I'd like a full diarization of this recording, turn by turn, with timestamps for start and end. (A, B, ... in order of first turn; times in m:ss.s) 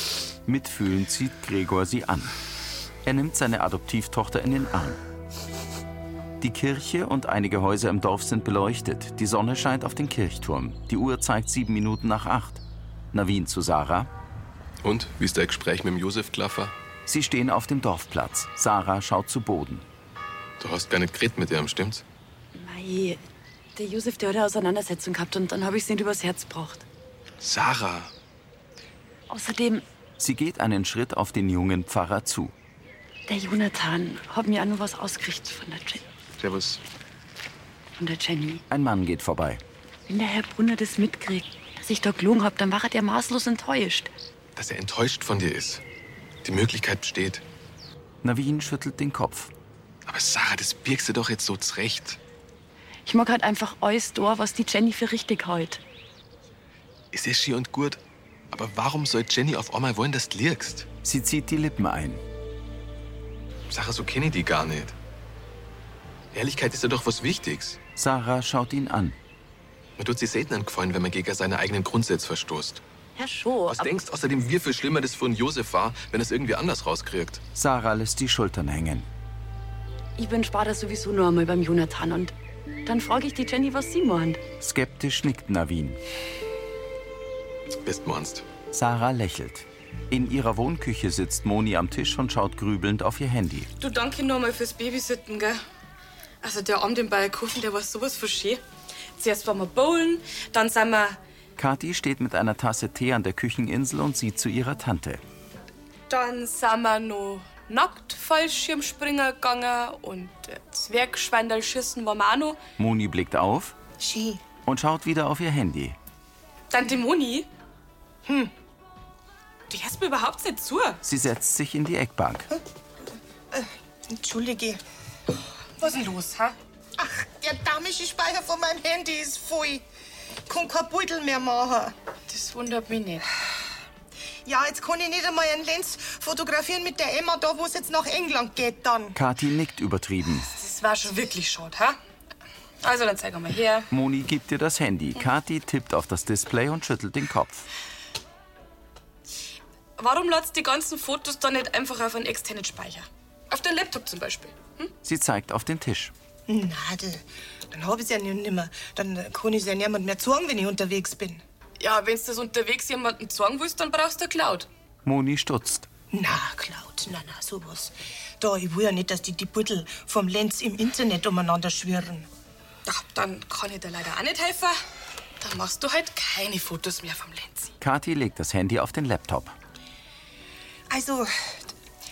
0:00.5-0:02.3 A
0:03.0-0:05.0 A
0:06.4-0:12.6 A
0:13.1-0:14.1 A
0:14.8-0:16.7 B
0:17.1-0:19.9 A
0:20.6-0:22.0 B
0:22.6-0:23.2 C
0:23.8-0:26.8 C
0:27.4-0:28.1 B
0:29.3-0:29.8 C
0:30.2-0:32.5 A
0:33.3-0:36.1 C
0:36.4-0:36.8 B
0:38.0-0:38.6 C
0:38.7-0:39.6 A
0:40.1-0:44.1 C
0:44.6-0:45.8 B
0:46.4-0:47.4 B
0:48.2-0:49.5 A
0:50.1-0:52.2 B
0:53.0-0:55.8 C
0:57.1-1:00.9 B
1:01.0-1:02.2 A
1:03.7-1:05.0 B
1:06.3-1:07.8 B
1:08.0-1:09.2 A
1:10.0-1:12.8 B
1:13.2-1:14.0 C
1:13.7-1:17.4 B
1:17.6-1:19.1 A
1:20.2-1:22.3 C
1:22.8-1:24.4 C
1:24.6-1:26.0 A
1:27.8-1:28.4 B
1:28.7-1:33.7 A
1:33.8-1:35.6 D
1:36.4-1:38.6 D
1:39.2-1:41.2 D
1:41.6-1:45.2 A
1:46.1-1:52.6 D
1:52.8-1:53.8 A
1:54.0-1:54.4 E
1:54.6-1:56.0 A
1:56.7-1:57.5 D
1:58.3-1:58.5 E
1:59.7-2:01.0 D
2:01.0-2:02.5 A
2:03.5-2:04.8 E
2:05.8-2:06.6 D
2:07.0-2:09.8 E
2:10.5-2:12.0 E
2:12.3-2:13.2 D
2:14.5-2:19.2 E
2:19.2-2:20.5 A
2:20.5-2:22.0 D
2:22.8-2:23.9 D
2:23.9-2:27.7 A
2:30.0-2:34.9 D
2:35.0-2:36.1 A
2:36.5-2:41.4 E
2:41.8-2:44.7 D
2:45.0-2:45.9 A
2:46.1-2:52.3 E
2:52.9-2:54.8 D
2:55.4-2:57.7 D
2:57.8-2:59.5 A
3:00.9-3:01.6 E